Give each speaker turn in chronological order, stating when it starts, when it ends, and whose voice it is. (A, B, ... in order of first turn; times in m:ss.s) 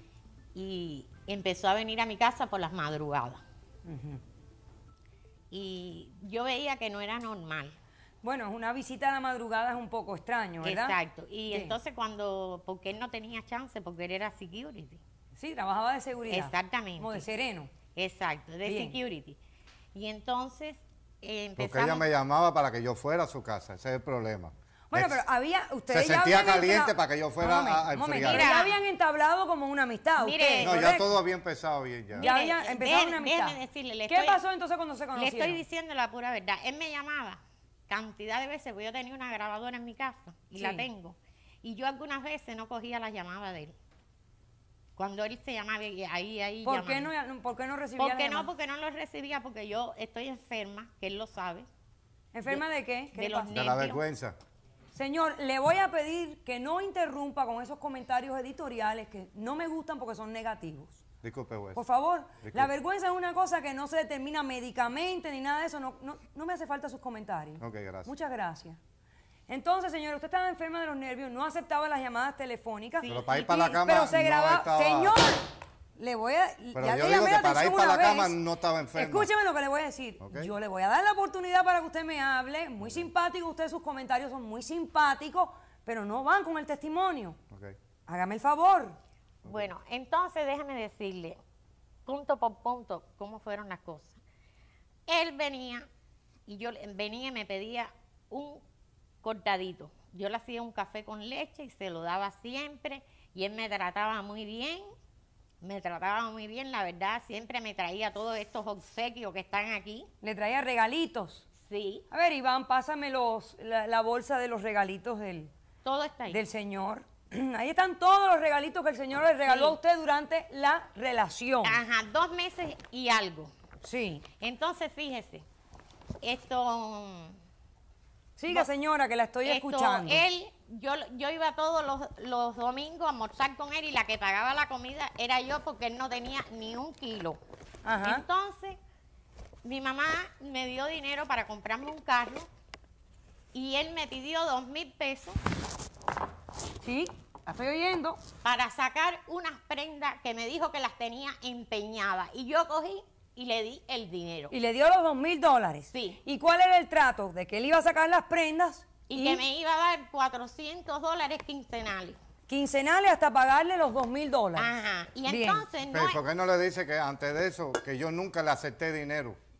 0:00.5-0:03.4 A
0:03.8-0:04.2 B
0:05.5-0:07.8 A
0:08.2-0:10.9 B
0:10.6-0:15.0 A
0:11.5-0:11.8 B
0:15.4-0:17.7 B
0:16.3-0:17.2 A
0:18.0-0:19.4 A
0:18.6-0:19.0 B
0:19.9-0:22.0 A
0:21.6-0:25.2 C
0:24.9-0:31.1 B
0:25.9-0:28.5 C
0:28.1-0:28.8 A
0:30.2-0:30.9 A
0:30.6-0:32.3 C
0:32.1-0:34.4 A
0:32.2-0:35.6 B
0:35.1-0:43.7 A
0:40.6-0:40.8 B
0:45.0-0:47.1 A
0:46.6-0:48.5 B
0:48.0-0:51.7 A
0:52.3-0:53.6 B
0:52.5-0:54.0 A
0:53.5-0:54.4 C
0:54.9-1:01.0 B
1:01.2-1:01.8 C
1:01.7-1:08.8 B
1:02.4-1:02.7 C
1:07.6-1:08.1 C
1:09.5-1:15.4 B
1:13.0-1:13.5 A
1:13.1-1:15.2 C
1:16.0-1:18.4 B
1:16.7-1:19.3 C
1:19.0-1:27.4 B
1:20.2-1:20.5 C
1:22.8-1:23.1 C
1:28.1-1:29.0 B
1:29.4-1:31.4 A
1:32.0-1:34.2 A
1:35.1-1:35.9 A
1:36.5-1:38.6 A
1:39.2-1:44.9 A
1:45.6-1:50.1 A
1:50.2-1:51.4 B
1:51.6-1:52.0 A
1:52.1-1:55.5 B
1:55.8-1:56.4 A
1:56.3-2:01.8 B
1:59.4-1:59.8 A
2:01.6-2:03.5 A
2:03.8-2:04.2 B
2:04.4-2:05.4 A
2:06.2-2:07.3 A
2:08.4-2:10.2 B
2:09.4-2:17.4 A
2:17.8-2:18.2 B
2:18.0-2:18.8 A
2:19.6-2:22.5 A
2:23.5-2:25.4 A
2:26.8-2:28.2 B
2:28.4-2:34.5 A
2:34.5-2:39.4 B
2:35.9-2:36.2 A
2:39.1-2:42.2 A
2:42.5-2:44.7 B
2:44.6-2:46.2 A
2:45.2-2:45.6 B
2:45.9-2:49.4 C